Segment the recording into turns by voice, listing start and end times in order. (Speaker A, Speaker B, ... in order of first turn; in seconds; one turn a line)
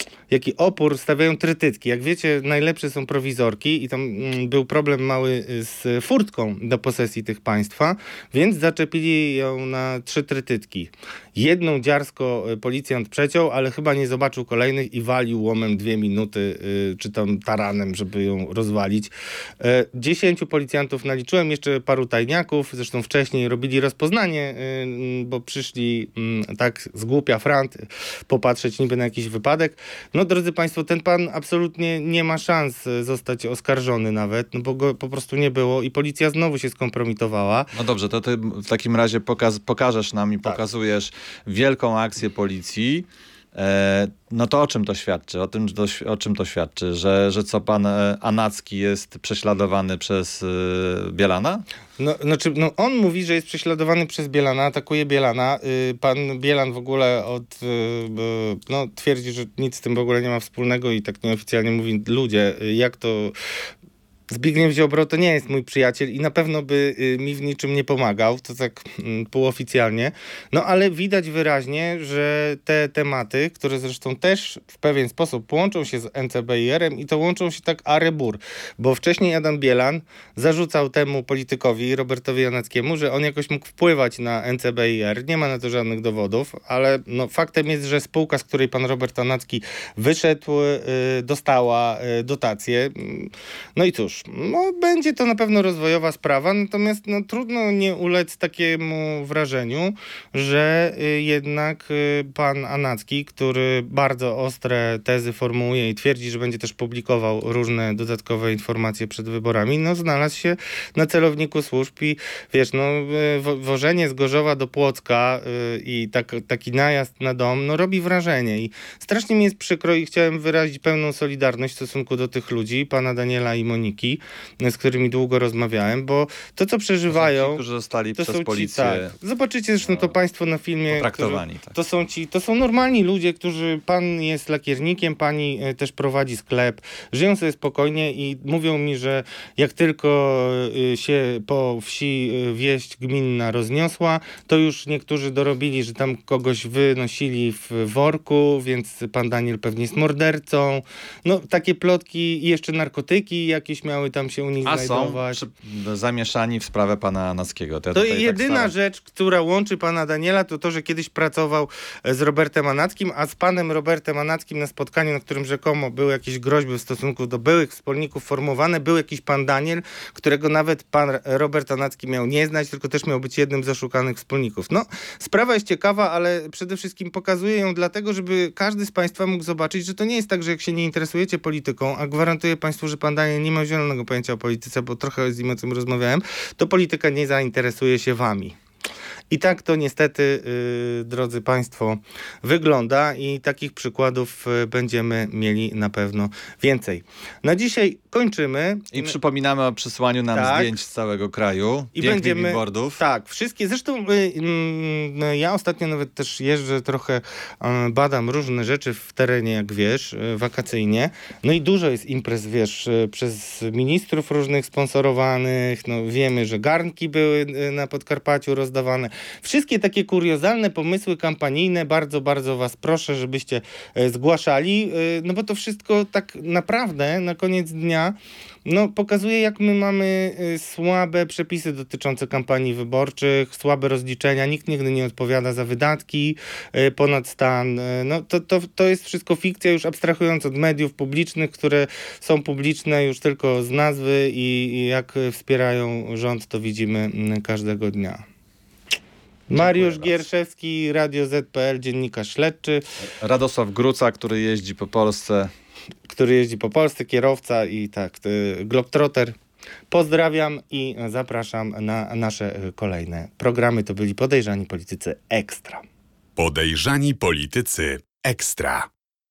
Speaker A: 0.3-37.7
Speaker B: 37.7-51.6
Speaker A: 52.0-63.3
Speaker A: 64.3-127.6
Speaker B: 127.1-129.1
Speaker A: 128.2-155.4
Speaker B: 129.8-130.1
Speaker B: 130.9-131.8
Speaker B: 154.6-158.7
Speaker A: 157.9-188.6
Speaker A: 189.3-199.2
Speaker B: 198.9-203.0
Speaker A: 200.3-200.7
Speaker A: 201.9-248.2
Speaker A: 249.5-252.8
Speaker B: 249.5-250.2
Speaker B: 253.0-255.5
Speaker A: 256.1-259.4
Speaker A: 259.9-265.8
Speaker C: 266.4-268.9